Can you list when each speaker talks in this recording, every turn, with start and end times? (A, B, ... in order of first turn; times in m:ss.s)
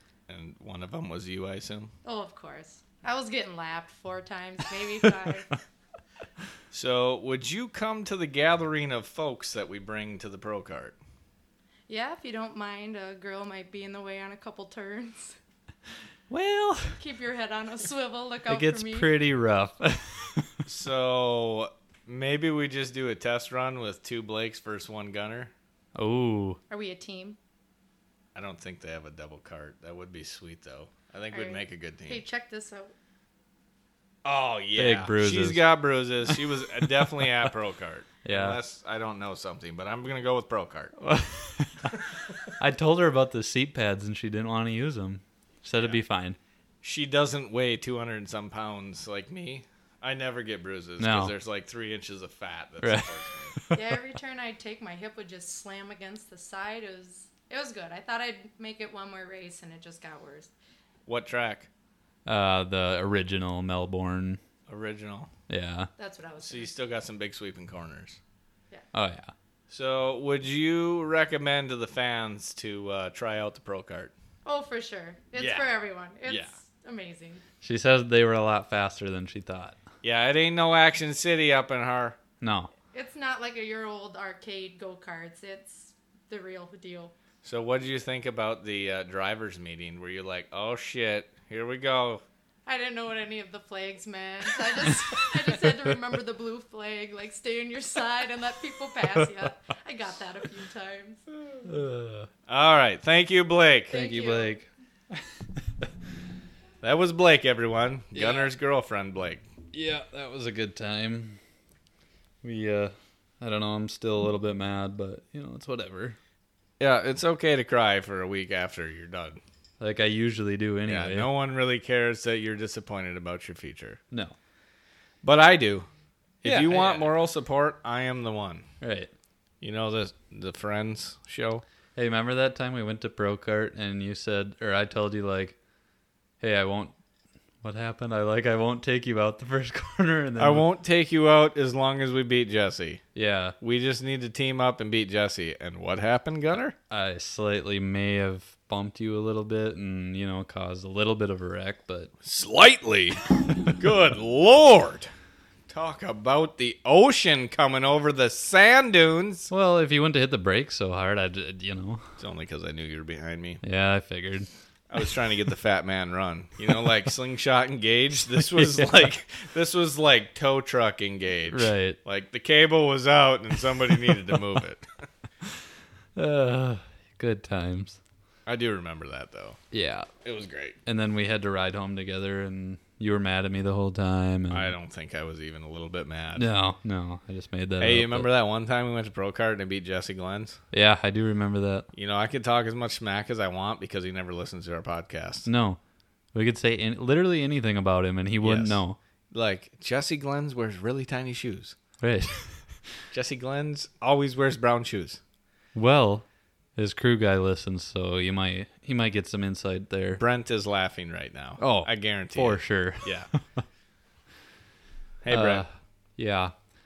0:00.3-0:01.9 A
0:02.0-0:05.6 B
0:06.7-0:11.0 A
0:11.9-0:15.4 B
0:16.3-0:17.0 C
0:17.0-0:19.1 B
0:18.5-0:20.6 C
0:20.7-0:25.5 A
0:26.0-0:26.6 C
0:26.7-0:27.4 B
0:28.4-0:32.2 A
0:31.3-0:32.9 B
0:34.2-0:41.0 A
0:34.8-0:35.7 C
0:36.3-0:37.5 C
0:38.2-0:38.6 C
0:41.0-0:46.4 C
0:46.8-0:53.6 A
0:51.0-0:51.3 C
0:52.8-0:53.8 C
0:53.7-1:00.5 B
1:01.1-1:01.7 A
1:02.3-1:04.4 C
1:04.7-1:05.3 A
1:05.5-1:05.9 C
1:06.0-1:06.7 B
1:06.4-1:08.2 A
1:08.9-1:09.3 C
1:09.7-1:14.1 A
1:14.4-1:17.4 B
1:15.4-1:15.7 A
1:16.2-1:16.5 A
1:17.6-1:19.8 C
1:20.0-1:22.2 A
1:22.4-1:22.7 C
1:22.9-1:27.1 B
1:27.4-1:32.2 A
1:32.7-1:41.2 B
1:34.8-1:36.0 C
1:39.1-1:39.5 C
1:41.6-1:42.3 C
1:42.5-1:44.0 A
1:43.9-1:44.6 B
1:43.9-1:45.2 C
1:46.8-1:49.4 A
1:48.1-1:48.5 C
1:49.7-1:51.4 C
1:52.4-1:56.2 C
1:56.8-1:59.4 A
1:59.8-2:01.3 C
2:00.9-2:04.0 A
2:05.2-2:05.9 A
2:06.4-2:08.6 A
2:06.4-2:07.1 C
2:08.8-2:09.1 C
2:09.6-2:11.6 A
2:12.0-2:15.6 C
2:16.4-2:16.9 C
2:17.6-2:20.7 C
2:20.4-2:23.0 A
2:23.2-2:23.6 C
2:23.6-2:26.8 A
2:26.9-2:32.1 C
2:32.2-2:35.1 A
2:35.7-2:39.5 A
2:39.5-2:42.1 C
2:42.2-2:43.6 A
2:43.6-2:44.5 C
2:44.9-2:54.9 A
2:48.4-2:49.1 C
2:51.5-2:52.0 C
2:56.2-2:58.0 C
2:58.5-2:59.6 A
2:59.7-3:00.1 C
3:00.2-3:00.8 A
3:00.8-3:04.7 C
3:04.5-3:06.5 A
3:06.4-3:08.3 C
3:07.8-3:10.6 A
3:10.7-3:11.9 C
3:11.9-3:15.5 A
3:15.5-3:15.8 C
3:16.3-3:19.0 C
3:18.4-3:18.8 A
3:19.3-3:21.8 A
3:22.0-3:22.8 C
3:23.1-3:25.2 A
3:25.8-3:30.2 C
3:30.2-3:33.3 A
3:31.6-3:33.4 C
3:35.2-3:35.6 A
3:35.3-3:36.5 C